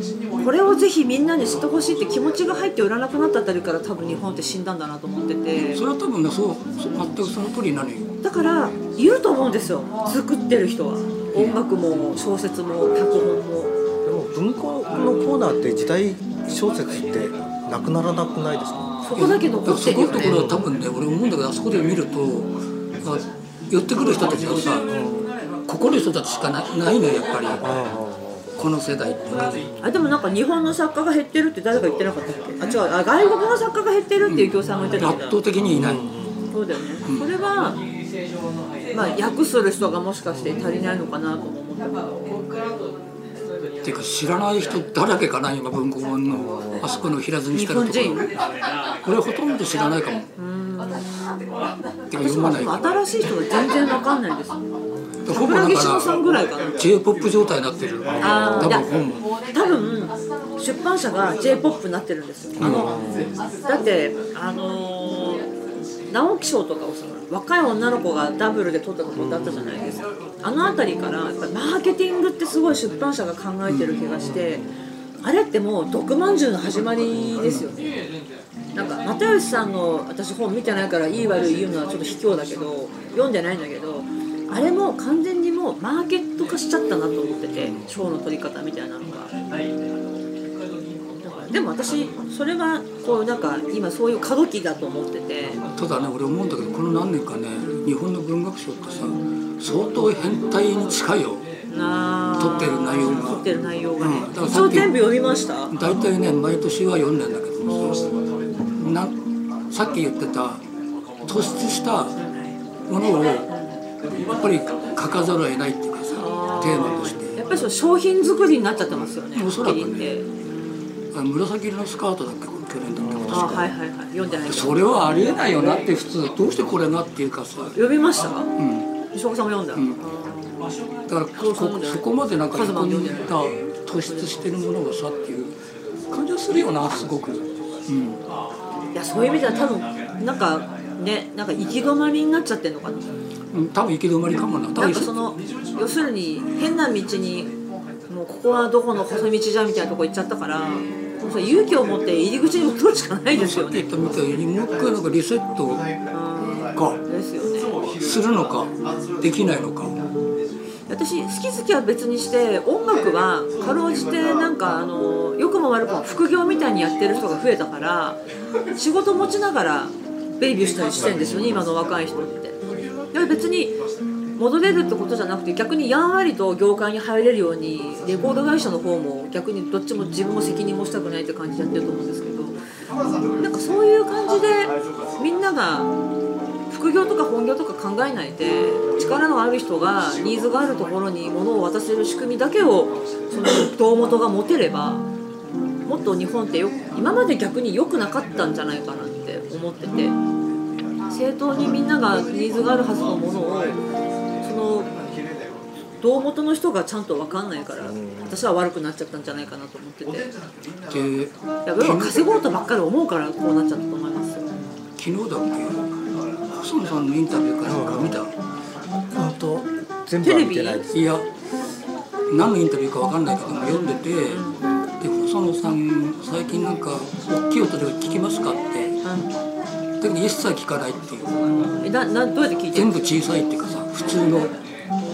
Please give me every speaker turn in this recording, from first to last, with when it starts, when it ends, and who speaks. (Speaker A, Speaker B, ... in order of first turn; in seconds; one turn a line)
Speaker A: 0.4-5.8
Speaker B: 5.6-8.1
Speaker A: 8.2-13.7
Speaker C: 14.1-19.0
Speaker A: 19.0-20.5
Speaker B: 19.1-24.9
Speaker C: 20.2-20.6
Speaker C: 24.8-25.4
Speaker B: 25.7-27.7
Speaker C: 27.6-28.5
Speaker B: 28.6-29.7
Speaker A: 29.8-35.4
Speaker B: 34.3-36.0
Speaker C: 35.7-36.5
Speaker A: 36.5-37.8
Speaker A: 38.9-42.3
Speaker B: 43.8-48.4
Speaker C: 46.3-46.9
Speaker A: 47.5-48.4
Speaker B: 49.0-50.3
Speaker A: 50.4-51.1
Speaker B: 52.1-53.0
Speaker A: 52.2-54.6
Speaker B: 55.2-56.2
Speaker A: 55.3-56.8
Speaker B: 56.8-59.3
Speaker C: 58.2-58.8
Speaker A: 58.2-58.9
Speaker A: 59.5-63.0
Speaker C: 62.6-63.4
Speaker B: 62.6-62.9
Speaker A: 63.6-65.5
Speaker A: 66.1-74.7
Speaker C: 69.2-70.0
Speaker B: 73.7-74.0
Speaker C: 74.2-74.7
Speaker A: 75.2-78.0
Speaker B: 77.4-77.7
Speaker A: 78.7-89.3
Speaker B: 87.6-87.9
Speaker A: 91.3-95.6
Speaker B: 95.6-101.5
Speaker A: 101.7-105.8
Speaker B: 102.4-103.5
Speaker B: 104.0-105.0
Speaker B: 105.7-108.0
Speaker A: 107.7-108.2
Speaker B: 108.7-109.2
Speaker B: 109.7-110.6
Speaker B: 111.3-112.2
Speaker B: 112.9-113.5
Speaker B: 114.2-117.4
Speaker A: 116.1-120.8
Speaker B: 119.3-120.1
Speaker B: 121.1-123.7
Speaker C: 123.0-123.7
Speaker A: 123.3-125.1
Speaker B: 124.4-127.8
Speaker A: 127.8-128.5
Speaker B: 128.6-128.9
Speaker A: 129.1-130.7
Speaker B: 129.8-130.0
Speaker B: 131.1-135.6
Speaker A: 131.4-133.6
Speaker A: 134.1-134.4
Speaker B: 136.1-138.2
Speaker A: 138.9-143.1
Speaker B: 143.5-145.2
Speaker A: 144.8-147.5
Speaker A: 148.1-153.9
Speaker B: 153.3-155.9
Speaker A: 156.1-157.8
Speaker B: 156.7-157.0
Speaker B: 158.0-160.0
Speaker A: 160.9-168.2
Speaker A: 168.8-172.6
Speaker A: 173.1-173.8
Speaker A: 174.4-182.6
Speaker A: 183.4-185.9
Speaker A: 186.7-195.0
Speaker A: 195.8-200.2
Speaker A: 201.1-203.8
Speaker A: 204.4-204.9
Speaker A: 206.0-210.3
Speaker C: 207.9-208.3
Speaker B: 210.9-212.2
Speaker A: 211.7-214.6
Speaker B: 215.0-216.0
Speaker B: 216.5-218.3
Speaker C: 217.6-218.2
Speaker C: 219.1-221.1
Speaker A: 220.2-220.8
Speaker B: 220.9-221.3
Speaker B: 222.3-224.4
Speaker A: 223.7-224.7
Speaker B: 225.0-228.9
Speaker A: 229.0-229.3
Speaker B: 230.0-231.5
Speaker A: 231.8-233.1
Speaker B: 232.7-234.6